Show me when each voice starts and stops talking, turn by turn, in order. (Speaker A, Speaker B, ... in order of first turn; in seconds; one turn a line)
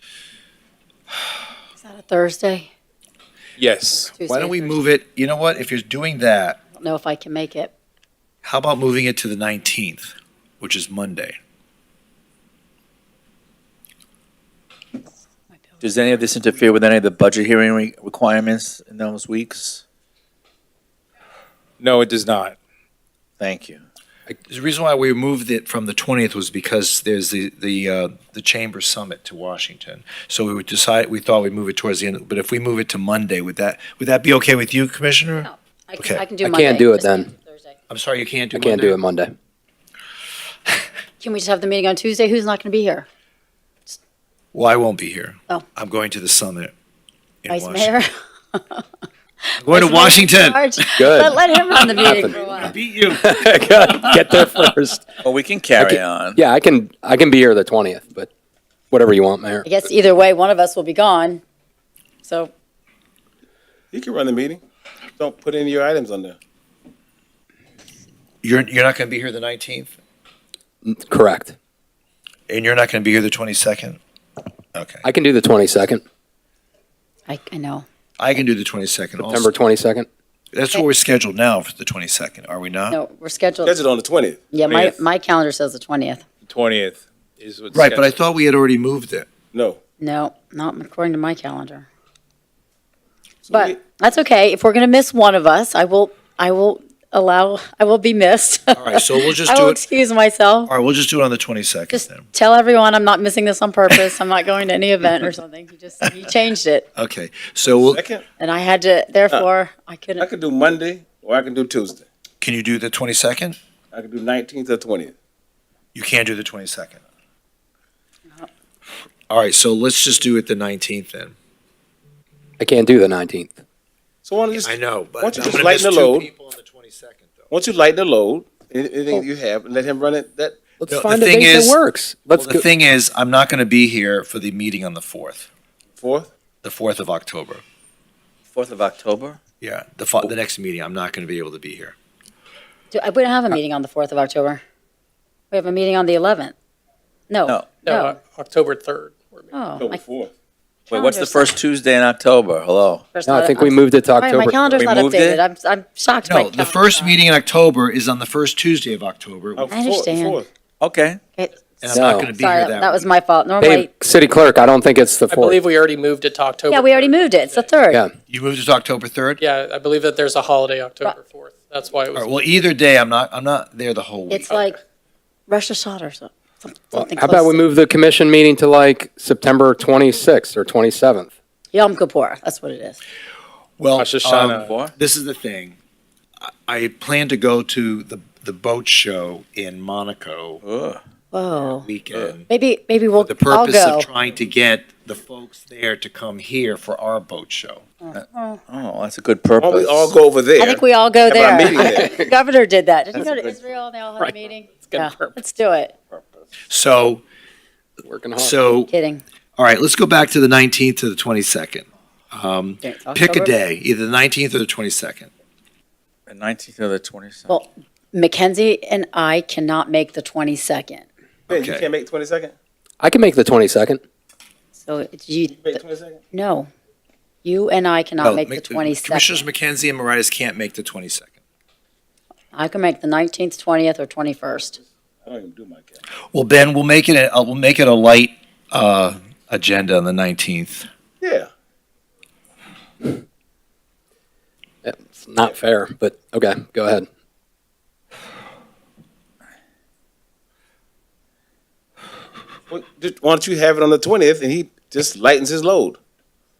Speaker A: 1.8-2.7
Speaker B: 3.6-4.1
Speaker A: 4.1-4.7
Speaker C: 4.3-6.6
Speaker A: 6.7-7.7
Speaker C: 8.4-11.4
Speaker D: 15.8-19.8
Speaker B: 21.8-22.6
Speaker D: 23.4-23.8
Speaker C: 24.5-36.2
Speaker A: 35.4-37.8
Speaker E: 36.4-37.3
Speaker C: 37.9-39.0
Speaker E: 38.5-39.3
Speaker A: 41.2-43.1
Speaker C: 44.5-46.7
Speaker C: 47.4-47.9
Speaker A: 47.5-48.9
Speaker A: 49.5-52.7
Speaker C: 49.6-51.0
Speaker E: 51.0-51.4
Speaker C: 51.8-53.3
Speaker E: 52.0-55.0
Speaker D: 55.2-56.4
Speaker E: 55.8-58.3
Speaker E: 58.9-59.6
Speaker A: 59.6-61.4
Speaker A: 62.2-62.5
Speaker F: 63.9-64.6
Speaker F: 65.2-66.3
Speaker C: 68.4-69.9
Speaker E: 70.8-71.5
Speaker C: 72.5-74.0
Speaker C: 74.7-75.1
Speaker E: 75.0-76.0
Speaker A: 77.3-77.8
Speaker C: 78.2-79.5
Speaker E: 79.2-80.1
Speaker C: 80.5-83.0
Speaker A: 82.9-83.8
Speaker F: 83.6-84.5
Speaker A: 84.5-86.2
Speaker B: 84.6-85.0
Speaker B: 86.4-88.2
Speaker C: 87.7-89.3
Speaker F: 89.5-89.8
Speaker A: 90.0-91.9
Speaker F: 93.5-93.8
Speaker A: 93.5-100.7
Speaker C: 98.8-99.8
Speaker C: 100.7-102.3
Speaker A: 101.9-106.9
Speaker C: 106.9-108.0
Speaker F: 107.6-108.3
Speaker A: 108.3-110.3
Speaker F: 110.2-112.0
Speaker C: 112.4-113.5
Speaker F: 113.9-115.1
Speaker C: 115.9-117.0
Speaker C: 119.3-121.3
Speaker E: 122.6-123.6
Speaker F: 124.2-126.3
Speaker C: 124.6-127.5
Speaker F: 127.5-130.6
Speaker E: 130.8-132.7
Speaker C: 130.9-131.8
Speaker C: 132.4-135.5
Speaker F: 135.9-136.3
Speaker C: 136.6-137.6
Speaker D: 138.5-139.4
Speaker C: 139.6-141.9
Speaker A: 142.9-144.6
Speaker A: 145.5-146.5
Speaker A: 147.3-148.2
Speaker D: 147.4-147.8
Speaker G: 147.8-149.5
Speaker A: 149.5-150.0
Speaker F: 149.8-150.3
Speaker D: 150.9-153.0
Speaker A: 150.9-151.6
Speaker A: 153.1-157.2
Speaker E: 153.2-154.6
Speaker D: 154.7-155.4
Speaker C: 156.2-159.7
Speaker F: 159.6-160.5
Speaker A: 159.7-160.4
Speaker D: 160.8-161.2
Speaker A: 161.3-161.6
Speaker C: 161.8-163.1
Speaker E: 161.9-162.3
Speaker A: 162.3-163.9
Speaker E: 163.6-165.6
Speaker G: 165.3-167.7
Speaker A: 166.7-168.0
Speaker C: 168.3-169.4
Speaker G: 169.4-172.3
Speaker C: 172.1-174.5
Speaker A: 174.3-174.8
Speaker A: 175.5-177.7
Speaker E: 176.9-181.3
Speaker A: 181.7-183.0
Speaker C: 183.8-185.8
Speaker B: 183.9-184.7
Speaker D: 184.5-184.9
Speaker C: 186.4-190.6
Speaker D: 190.6-191.0
Speaker A: 191.3-191.9
Speaker C: 191.8-192.5
Speaker A: 192.5-194.1
Speaker C: 193.2-197.8
Speaker A: 198.0-198.6
Speaker D: 198.1-200.1
Speaker F: 199.6-202.2
Speaker A: 200.6-205.9
Speaker E: 201.8-202.2
Speaker G: 204.2-205.3
Speaker C: 206.7-207.2
Speaker E: 208.1-208.6
Speaker C: 208.4-208.9
Speaker A: 208.9-209.2
Speaker C: 209.6-215.3
Speaker A: 212.8-213.5
Speaker D: 216.3-217.6
Speaker A: 217.5-221.1
Speaker C: 221.5-221.8
Speaker F: 221.5-222.5
Speaker E: 223.0-224.0
Speaker A: 224.7-226.7
Speaker F: 225.6-226.2
Speaker A: 227.4-229.4
Speaker C: 228.2-231.3
Speaker A: 232.5-234.8
Speaker F: 235.2-236.0
Speaker C: 236.3-240.9
Speaker F: 241.2-241.5
Speaker E: 244.8-247.1
Speaker F: 252.7-256.0